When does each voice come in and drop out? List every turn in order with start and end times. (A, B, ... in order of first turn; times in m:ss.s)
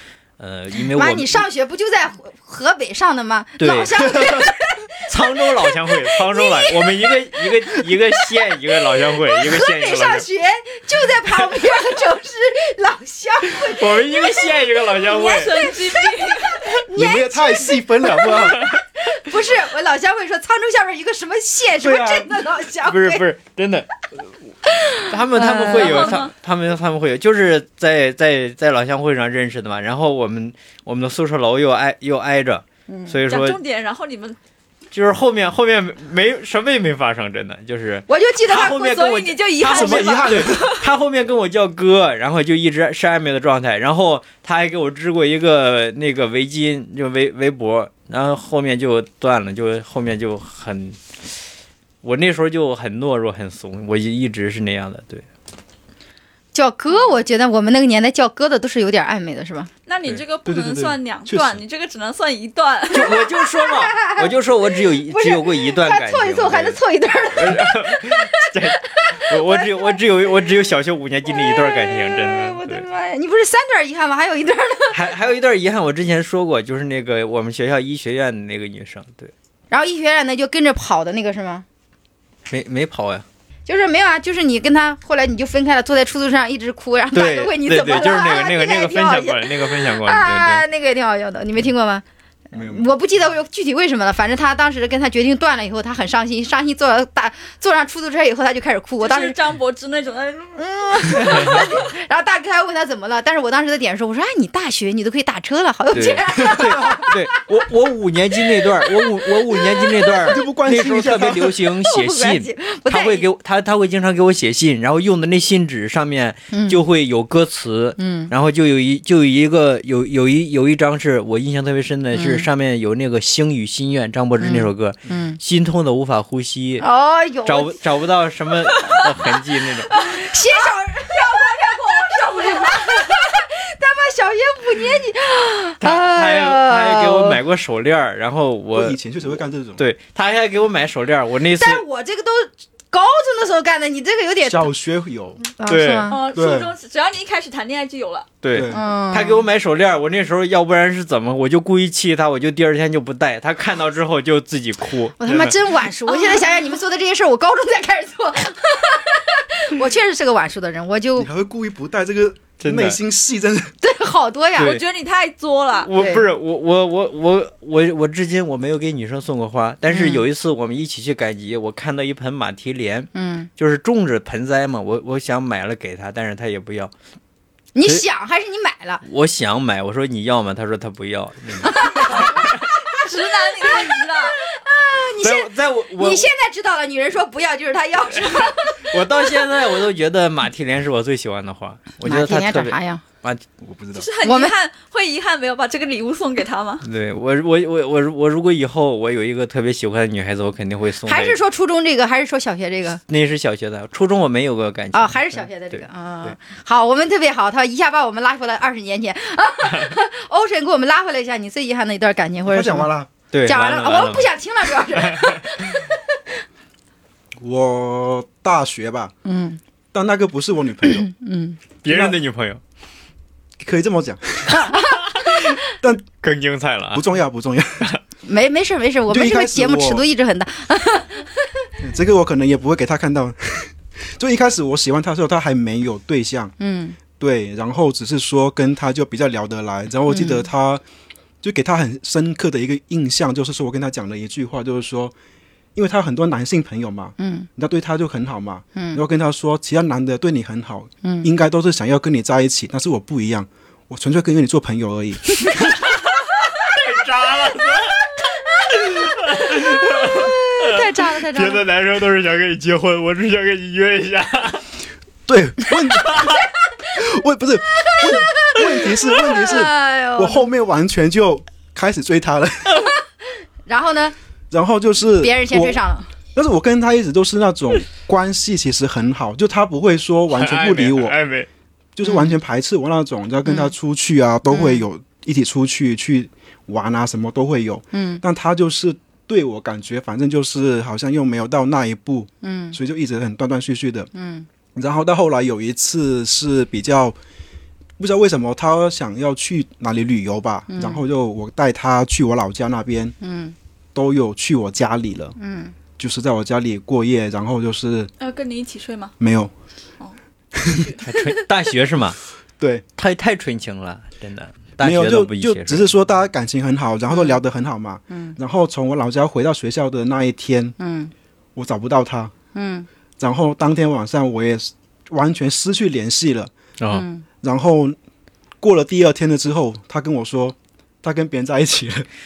0:00.4-0:01.4 A
0:00.9-0:14.7 B
0:03.6-0:04.5 A
0:05.1-0:10.2 A
0:13.5-0:15.7 A
0:15.0-0:16.8 C
0:15.7-0:23.3 B
0:16.9-0:18.7 D
0:18.3-0:18.8 A
0:21.8-0:22.4 D
0:22.8-0:24.5 A
0:24.7-0:26.2 B
0:25.0-0:33.6 A
0:25.6-0:26.3 C
0:32.9-0:33.2 B
0:33.3-0:34.4 C
0:34.9-0:51.1 A
0:38.1-0:38.8 B
0:38.5-0:40.8 C
0:39.6-0:40.7 D
0:52.0-0:55.2 A
0:56.5-0:59.7 B
0:59.9-1:03.3 C
1:00.4-1:01.6 D
1:02.9-1:06.8 A
1:02.9-1:10.0 B
1:07.3-1:12.8 A
1:11.2-1:15.0 B
1:14.9-1:19.3 A
1:19.7-1:21.6 B
1:22.4-1:23.2 A
1:23.6-1:39.4 B
1:27.1-1:30.6 A
1:32.5-1:32.9 D
1:39.0-1:41.6 C
1:40.6-1:47.2 B
1:45.9-2:06.8 A
1:46.5-1:46.8 D
1:48.6-1:50.4 B
1:50.3-1:51.6 D
1:51.8-1:53.2 B
1:56.5-1:56.8 B
1:58.0-1:58.3 B
2:02.1-2:02.5 B
2:04.4-2:05.4 B
2:06.8-2:07.8 B
2:07.4-2:09.9 A
2:09.9-2:17.4 B
2:15.8-2:19.0 A
2:18.7-2:19.8 D
2:19.8-2:21.8 A
2:21.6-2:24.7 B
2:24.4-2:25.5 D
2:25.6-2:26.2 B
2:25.7-2:26.1 A
2:26.1-2:28.3 C
2:26.3-2:26.7 D
2:28.4-2:35.6 A
2:28.5-2:28.8 D
2:28.7-2:29.4 B
2:35.2-2:41.3 B
2:36.1-2:36.4 C
2:41.2-2:43.7 D
2:42.6-2:43.0 A
2:43.8-2:44.8 B
2:44.6-2:45.9 C
2:45.8-2:56.9 A
2:46.0-2:46.2 B
2:49.9-2:50.2 B
2:53.1-2:53.5 B
2:57.7-2:59.0 B
2:59.0-3:02.5 A
3:01.6-3:03.0 B
3:02.9-3:04.4 C
3:03.6-3:09.6 B
3:05.2-3:06.3 A
3:08.9-3:13.4 A
3:12.0-3:13.0 B
3:13.6-3:14.1 D
3:13.9-3:16.8 C
3:14.2-3:14.5 B
3:16.8-3:21.4 A
3:21.0-3:23.0 B
3:23.1-3:25.8 A
3:24.9-3:32.9 B
3:32.5-3:33.1 D
3:33.3-3:34.3 A
3:33.4-3:36.2 B
3:34.9-3:35.4 A
3:37.4-3:39.1 D
3:39.2-3:39.6 B
3:39.9-3:41.1 D
3:40.8-3:41.6 B
3:41.8-3:42.6 A
3:41.9-3:42.2 D
3:43.6-3:44.7 D
3:44.5-3:45.5 B
3:44.7-3:45.6 A
3:46.2-3:47.0 A
3:46.9-3:47.9 D
3:48.2-3:51.3 B
3:49.1-3:50.0 D
3:51.8-3:56.5 D
3:56.6-3:57.0 B
3:57.2-4:00.8 D
4:00.1-4:00.5 B
4:01.4-4:05.1 D
4:05.7-4:15.4 D
4:07.2-4:07.5 B
4:08.8-4:09.0 B
4:11.0-4:11.3 B
4:15.6-4:15.9 A
4:16.6-4:24.6 A
4:19.3-4:21.6 B
4:25.3-4:26.4 D
4:26.0-4:26.4 A
4:26.9-4:32.9 D
4:27.8-4:30.4 B
4:33.7-4:34.1 B
4:34.5-4:35.8 D
4:35.2-4:36.1 B
4:36.3-4:41.1 D
4:40.3-4:41.5 A
4:42.0-4:54.1 D
4:42.0-4:42.3 B
4:43.4-4:43.7 B
4:44.5-4:44.8 B
4:47.9-4:48.2 B
4:52.4-4:52.8 B
4:54.1-4:54.5 B
4:54.7-4:57.2 D
4:58.0-5:03.2 D
5:00.7-5:01.0 B
5:03.2-5:03.5 B
5:03.9-5:05.3 D
5:05.4-5:05.7 B
5:06.0-5:08.1 D
5:08.2-5:09.1 C
5:09.2-5:09.5 D
5:10.0-5:11.0 C
5:10.6-5:10.9 D
5:11.0-5:12.2 A
5:12.6-5:12.8 D
5:13.0-5:15.9 A
5:14.8-5:20.8 D
5:18.1-5:18.4 B
5:20.8-5:21.1 B
5:21.6-5:22.3 D
5:22.5-5:22.9 B
5:23.2-5:26.5 D
5:26.8-5:27.0 A
5:26.9-5:27.2 B
5:27.4-5:28.0 D
5:28.6-5:32.0 D